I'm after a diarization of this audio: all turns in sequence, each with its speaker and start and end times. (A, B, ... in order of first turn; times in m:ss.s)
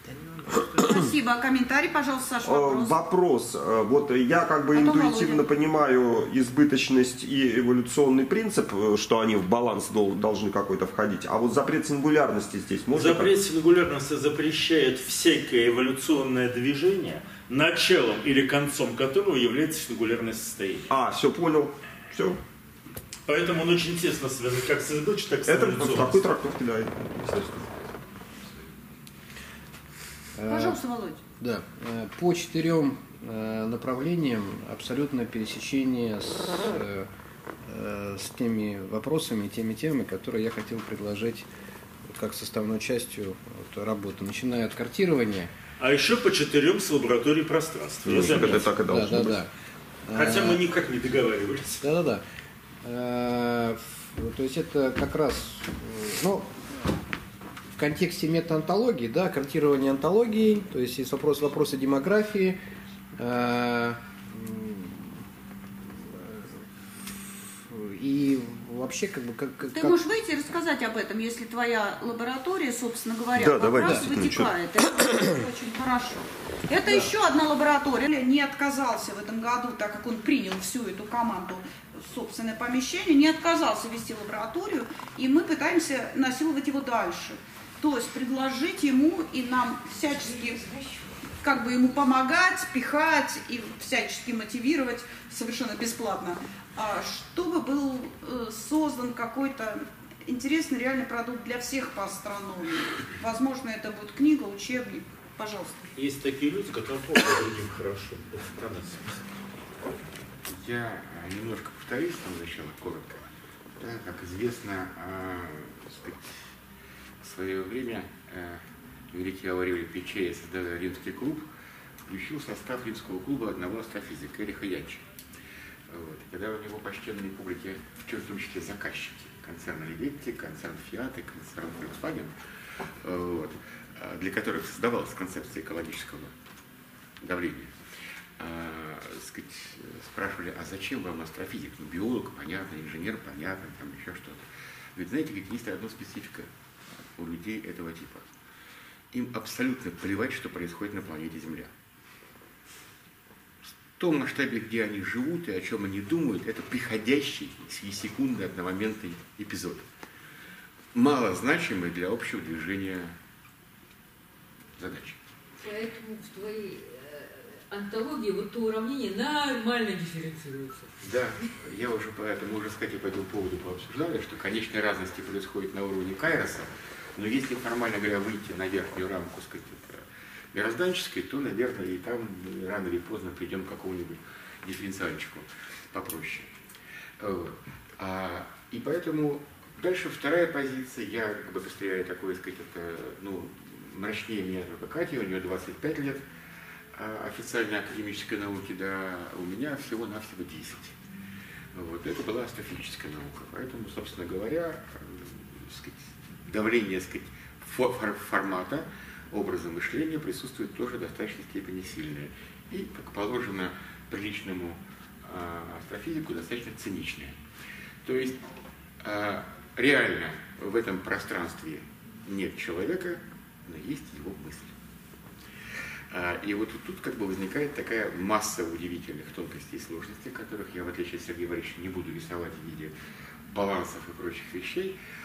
0:00.5-0:03.0 A
0:02.4-0:13.3 B
0:04.7-0:05.4 A
0:12.9-0:20.9 C
0:20.9-0:22.4 B
0:23.3-0:26.3 C
0:25.5-0:27.7 B
0:30.4-0:30.8 D
0:30.5-0:31.2 A
0:31.4-0:37.1 D
0:37.6-0:41.4 D
0:42.1-0:45.5 D
0:45.8-0:48.7 C
0:48.0-0:49.4 B
0:48.3-0:49.5 D
0:50.0-0:50.6 D
0:50.1-0:51.8 C
0:51.8-0:52.2 D
0:52.8-0:56.9 D
0:57.8-1:02.6 D
1:03.2-1:05.2 D
1:06.1-1:06.6 D
1:07.7-1:09.9 D
1:09.7-1:30.6 A
1:13.4-1:14.5 B
1:13.8-1:14.0 D
1:31.4-1:45.9 A
1:46.0-1:49.3 C
1:50.4-1:53.2 E
1:53.8-1:56.5 E
1:57.2-2:01.5 E
2:02.1-2:05.1 E
2:05.9-2:12.3 E
2:12.9-2:16.3 E
2:17.2-2:17.8 E
2:18.4-2:26.5 E
2:27.0-2:28.2 E
2:29.1-2:31.7 E
2:34.0-2:39.8 E
2:40.9-2:43.1 E
2:44.8-2:45.2 E
2:45.6-2:50.9 F
2:51.0-3:06.5 E
3:07.2-3:16.2 E
3:16.9-3:20.9 E
3:21.7-3:37.4 E
3:38.0-3:38.4 E
3:39.0-3:44.7 E
3:46.1-3:52.9 E
3:53.5-3:55.0 E